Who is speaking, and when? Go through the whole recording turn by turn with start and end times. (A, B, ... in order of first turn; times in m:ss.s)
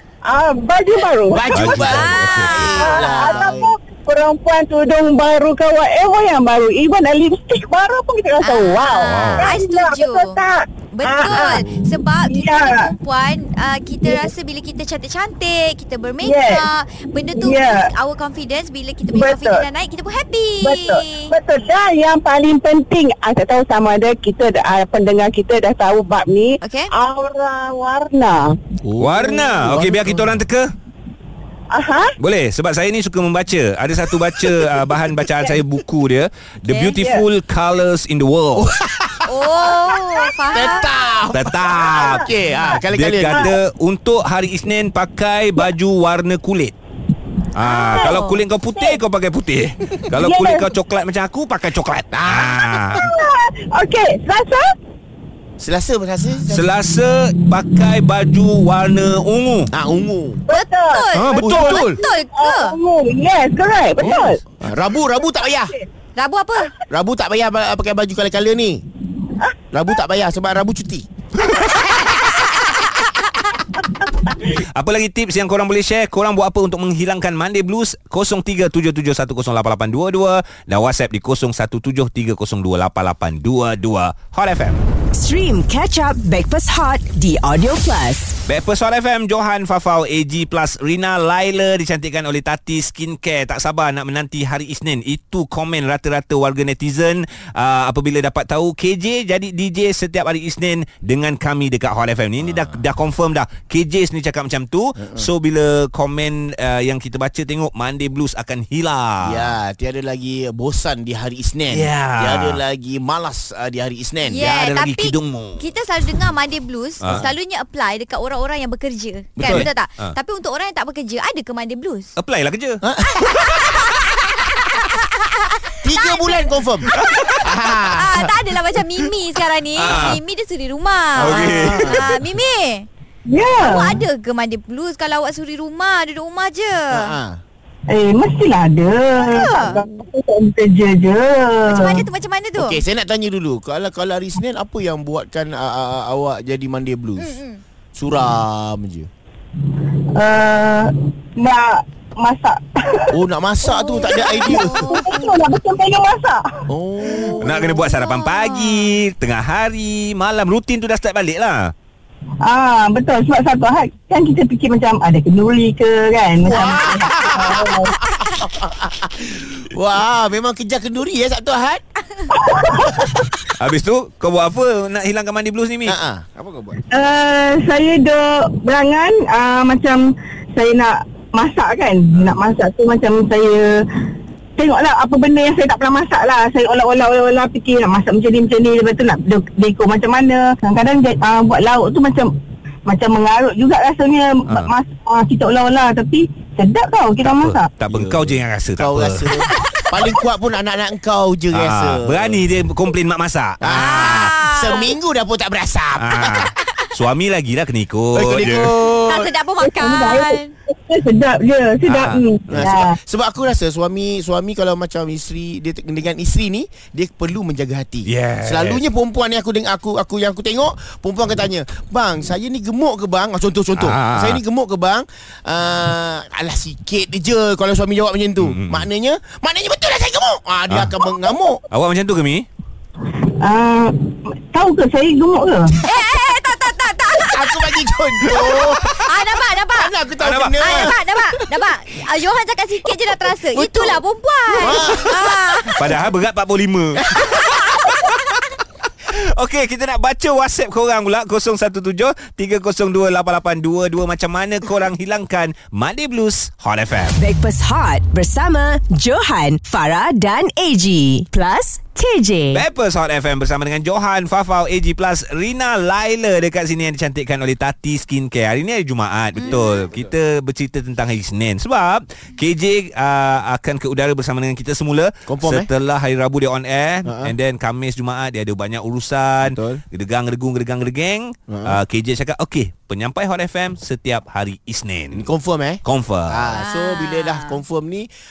0:00.3-0:01.8 A
0:01.3-0:03.7 B
0:01.5-0:02.9 C
0:01.9-0:03.6 D
0:02.8-0:11.6 A
0:08.4-0:10.4 D
0:09.0-0:09.5 C
0:10.9-0:21.4 D
0:11.2-0:11.9 B
0:12.2-0:12.9 A
0:14.0-0:14.3 A
0:16.2-0:16.7 A
0:17.3-0:17.9 A
0:19.1-0:19.7 A
0:20.6-0:28.5 A
0:26.6-0:26.9 D
0:28.8-0:30.4 B
0:29.0-0:30.7 C
0:31.7-0:32.1 A
0:32.2-0:38.8 C
0:36.7-0:37.0 D
0:36.9-0:37.2 A
0:38.6-0:43.6 B
0:39.3-0:41.2 D
0:41.3-0:42.3 C
0:42.9-0:46.8 C
0:47.6-0:53.1 C
0:47.6-0:48.4 D
0:50.2-0:50.7 A
0:52.1-0:53.1 B
0:53.0-0:54.7 A
0:55.6-0:56.6 B
0:56.5-0:59.7 C
0:59.7-1:00.4 B
1:00.5-1:02.8 D
1:00.5-1:01.1 A
1:01.2-1:01.9 C
1:01.2-1:02.0 B
1:01.6-1:04.4 A
1:04.0-1:05.8 B
1:05.2-1:05.8 A
1:06.2-1:06.7 D
1:06.8-1:08.8 B
1:09.7-1:11.1 B
1:14.5-1:24.8 C
1:25.1-1:28.4 E
1:28.5-1:49.6 C
1:42.5-1:42.7 B
1:45.0-1:45.3 B
1:49.2-1:54.4 B
1:51.7-1:52.6 C
1:54.2-2:02.1 D
1:54.4-1:55.7 C
1:57.0-1:57.3 C
1:59.4-1:59.7 B
1:59.4-2:00.2 C
2:02.2-2:02.8 C
2:02.8-2:03.5 B
2:03.0-2:12.9 D
2:05.8-2:08.3 B
2:06.9-2:07.5 C
2:09.8-2:10.2 C
2:11.2-2:12.1 C
2:11.2-2:12.2 B
2:13.3-2:14.0 A
2:13.6-2:17.2 D
2:16.9-2:17.4 B
2:17.9-2:22.0 A
2:19.2-2:19.8 D
2:21.7-2:22.8 D
2:22.6-2:27.3 B
2:27.2-2:27.6 D
2:28.0-2:29.1 B
2:29.7-2:33.2 A
2:33.1-2:35.0 B
2:33.7-2:35.4 D
2:34.1-2:36.7 A
2:36.7-2:37.8 B
2:37.2-2:38.9 D
2:37.4-2:41.7 C
2:42.4-2:48.1 A
2:46.4-2:51.8 B
2:52.3-2:53.3 A
2:52.7-2:53.2 B
2:53.6-2:56.0 C
2:55.9-2:56.8 B
2:56.9-3:03.8 A
3:04.6-3:17.7 A
3:17.2-3:19.3 C
3:17.9-3:22.4 B
3:19.4-3:19.7 D
3:21.5-3:24.4 C
3:23.6-3:26.7 B
3:23.7-3:25.0 D
3:26.0-3:28.7 C
3:28.2-3:29.3 B
3:28.8-3:30.5 D
3:29.6-3:33.0 A
3:31.9-3:32.7 C
3:32.5-3:51.6 B
3:38.1-3:38.8 C
3:43.8-3:44.4 C
3:48.4-3:48.9 C
3:50.7-3:51.1 C
3:51.7-3:52.5 C
3:53.1-3:55.8 A
3:55.8-3:57.7 D
3:57.2-4:01.4 B
3:59.0-4:00.0 D
4:00.2-4:01.0 C
4:00.5-4:05.8 D
4:03.5-4:05.9 B
4:05.7-4:07.6 C
4:07.3-4:08.0 D
4:09.1-4:17.2 C
4:17.2-4:22.6 E
4:22.5-4:45.3 C
4:29.4-4:29.9 D
4:35.3-4:35.7 B
4:37.1-4:37.3 B
4:39.4-4:39.8 B
4:41.5-4:41.8 B
4:45.1-4:48.1 B
4:45.8-4:46.4 C
4:46.5-4:47.6 D